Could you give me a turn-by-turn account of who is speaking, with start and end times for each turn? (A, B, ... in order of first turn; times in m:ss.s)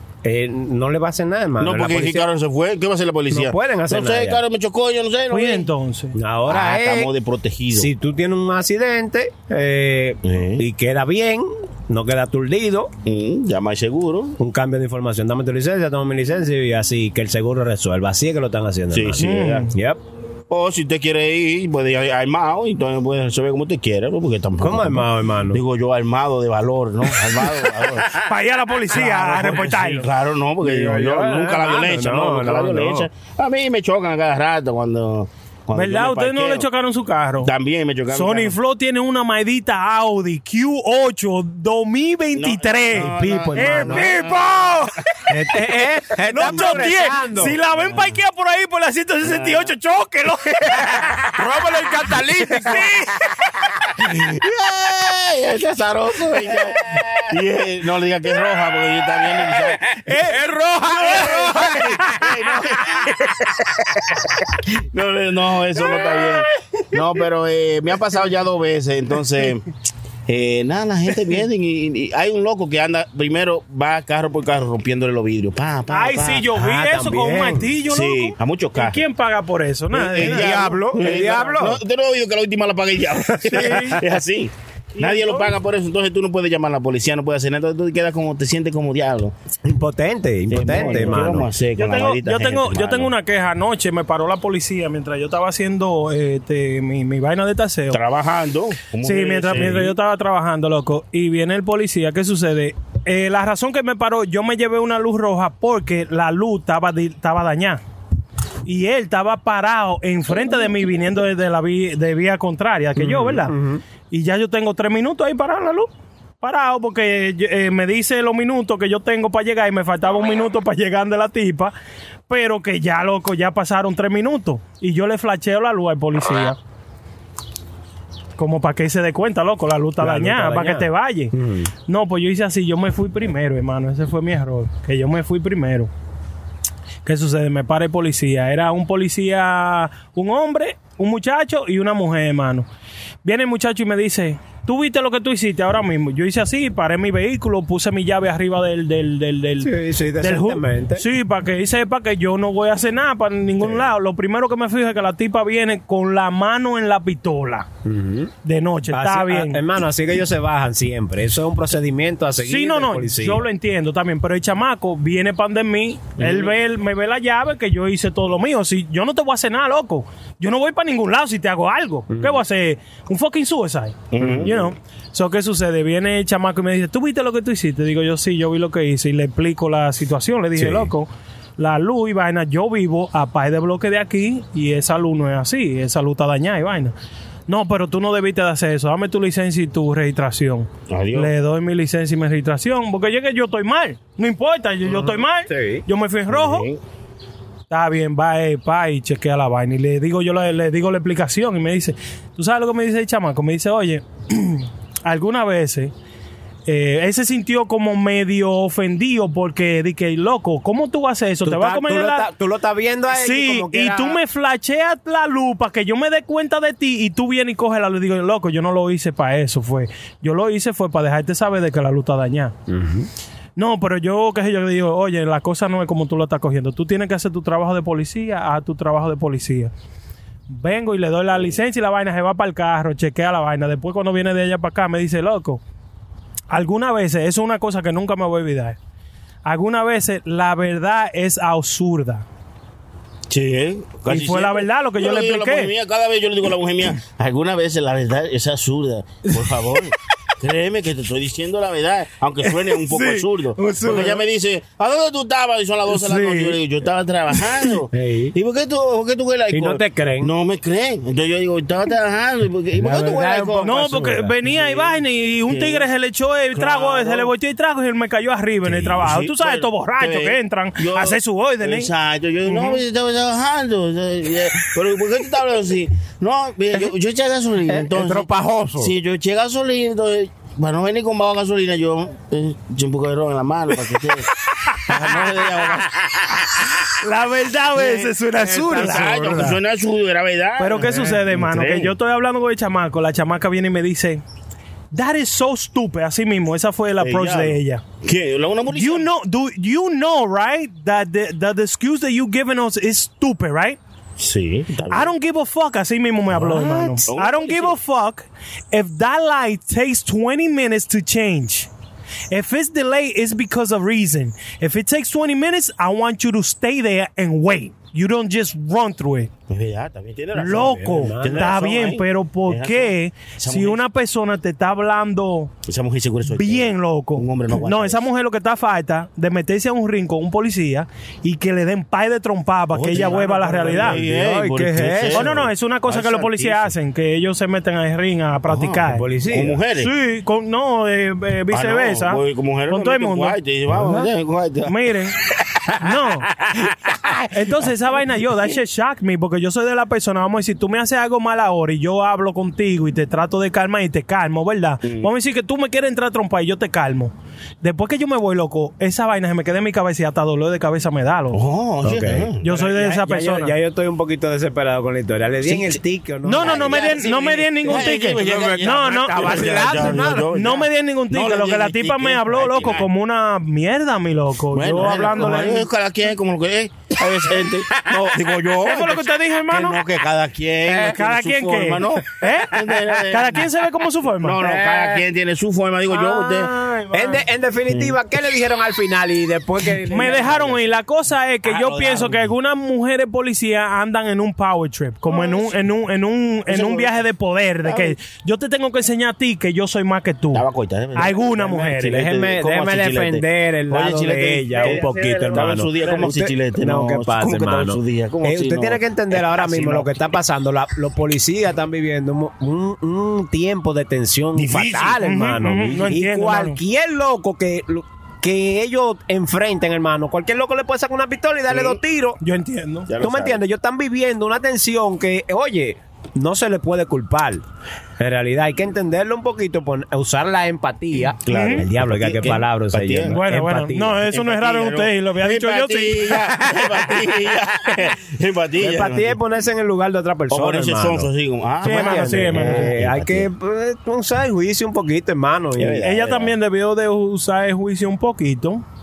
0:00.2-0:02.3 A
0:01.6-0:05.7 B
0:03.3-0:04.4 A
0:05.3-0:06.1 C
0:06.1-0:07.1 A
0:06.5-0:07.9 B
0:07.7-0:12.9 A
0:10.2-0:10.6 B
0:13.0-0:14.4 B
0:14.4-0:20.0 A
0:18.9-0:19.7 B
0:19.2-0:19.7 C
0:20.5-0:28.2 B
0:24.6-0:25.6 A
0:28.2-0:30.1 C
0:28.9-0:36.7 B
0:30.6-0:33.1 A
0:35.7-0:37.5 C
0:37.4-0:38.6 B
0:38.1-0:45.0 C
0:42.3-0:44.7 B
0:42.9-0:44.2 A
0:45.3-0:47.6 A
0:46.3-0:51.2 C
0:46.4-0:46.9 B
0:49.2-0:49.7 B
0:51.3-0:52.9 A
0:52.5-0:53.2 C
0:54.0-1:00.0 B
1:00.0-1:00.4 C
1:00.3-1:01.9 A
1:01.0-1:09.7 B
1:01.0-1:02.2 C
1:05.9-1:06.3 C
1:10.3-1:16.5 B
1:15.9-1:20.6 C
1:16.5-1:17.7 A
1:17.9-1:19.0 B
1:20.0-1:29.3 B
1:20.1-1:21.8 A
1:23.5-1:24.0 C
1:23.5-1:24.0 A
1:25.0-1:25.5 C
1:29.6-1:31.5 A
1:30.5-1:33.1 B
1:31.8-1:38.0 C
1:37.9-1:39.9 B
1:39.0-1:47.8 C
1:48.6-1:53.5 C
1:53.0-1:53.8 A
1:54.1-1:55.9 C
1:56.4-2:01.7 C
2:02.3-2:06.6 C
2:08.4-2:11.3 C
2:10.0-2:11.7 A
2:11.9-2:15.9 C
2:17.0-2:22.7 C
2:23.2-2:37.7 C
2:29.6-2:31.1 A
2:37.8-2:38.3 A
2:38.4-2:39.6 C
2:38.9-2:43.4 A
2:42.4-3:06.9 C
2:52.1-2:52.4 A
2:54.1-2:54.6 B
2:54.2-2:54.5 A
3:00.6-3:00.8 B
3:07.5-3:16.6 C
3:10.9-3:11.3 B
3:14.8-3:15.8 A
3:16.3-3:16.8 B
3:17.7-3:25.9 C
3:26.7-3:32.3 C
3:31.4-3:34.2 A
3:33.1-3:42.5 C
3:42.7-3:43.1 A
3:43.6-3:49.7 C
3:50.5-3:55.6 C
3:56.5-3:58.8 C
3:59.4-4:02.2 C
4:03.3-4:25.0 B
4:04.1-4:05.7 C
4:12.6-4:14.2 C
4:15.9-4:16.6 C
4:17.9-4:18.3 A
4:19.5-4:20.3 A
4:22.7-4:24.3 A
4:23.6-4:31.9 C
4:25.5-4:25.8 B
4:26.5-4:27.3 B
4:28.7-4:46.8 B
4:32.4-4:32.8 C
4:37.7-4:38.9 A
4:47.0-4:49.6 C
4:47.7-4:51.9 B
4:50.6-4:54.2 C
4:54.9-4:57.8 C
4:57.0-4:59.1 B
4:58.7-5:03.8 C
5:04.2-5:05.1 B
5:04.9-5:11.7 C
5:06.3-5:07.1 A
5:07.1-5:07.8 B
5:12.3-5:19.3 C
5:19.5-5:23.8 B
5:20.3-5:25.5 C
5:20.5-5:21.5 A
5:25.6-5:28.0 B
5:26.2-5:34.0 C
5:32.7-5:36.7 B
5:32.9-5:35.3 A
5:35.1-5:39.0 C
5:38.5-5:39.9 B
5:38.9-5:39.6 A
5:39.8-5:43.4 C
5:41.5-5:44.9 B
5:43.7-5:44.1 A
5:44.6-5:45.1 C
5:45.8-5:46.3 C
5:46.4-5:47.2 B
5:47.3-6:01.4 C
5:54.8-5:55.1 B
6:01.3-6:02.4 B
6:01.8-6:10.5 A
6:02.4-6:03.5 C
6:05.4-6:05.8 B
6:06.2-6:15.7 C
6:06.4-6:12.8 B
6:14.5-6:23.5 B
6:14.8-6:15.4 A
6:18.6-6:19.8 C
6:20.7-6:24.4 C
6:24.2-6:26.5 B
6:24.4-6:25.0 A
6:25.9-6:27.2 C
6:26.9-6:30.6 A
6:29.9-6:40.4 C
6:31.5-6:32.2 B
6:35.1-6:35.6 B
6:36.5-6:36.9 B
6:37.6-6:38.0 B
6:40.3-6:49.9 B
6:41.0-6:42.0 C
6:41.4-7:02.2 A
6:54.3-6:55.0 B
6:55.0-6:56.6 C
7:01.5-7:01.8 B
7:02.2-7:02.9 C
7:02.9-7:03.4 B
7:03.0-7:07.4 A
7:08.0-7:14.0 A
7:11.2-7:13.2 B
7:11.3-7:11.6 C
7:13.1-7:16.3 C
7:14.1-7:19.2 B
7:18.6-7:21.1 A
7:20.3-7:23.3 B
7:21.6-7:22.7 C
7:21.6-7:25.9 A
7:25.6-7:26.3 B
7:25.8-7:28.6 C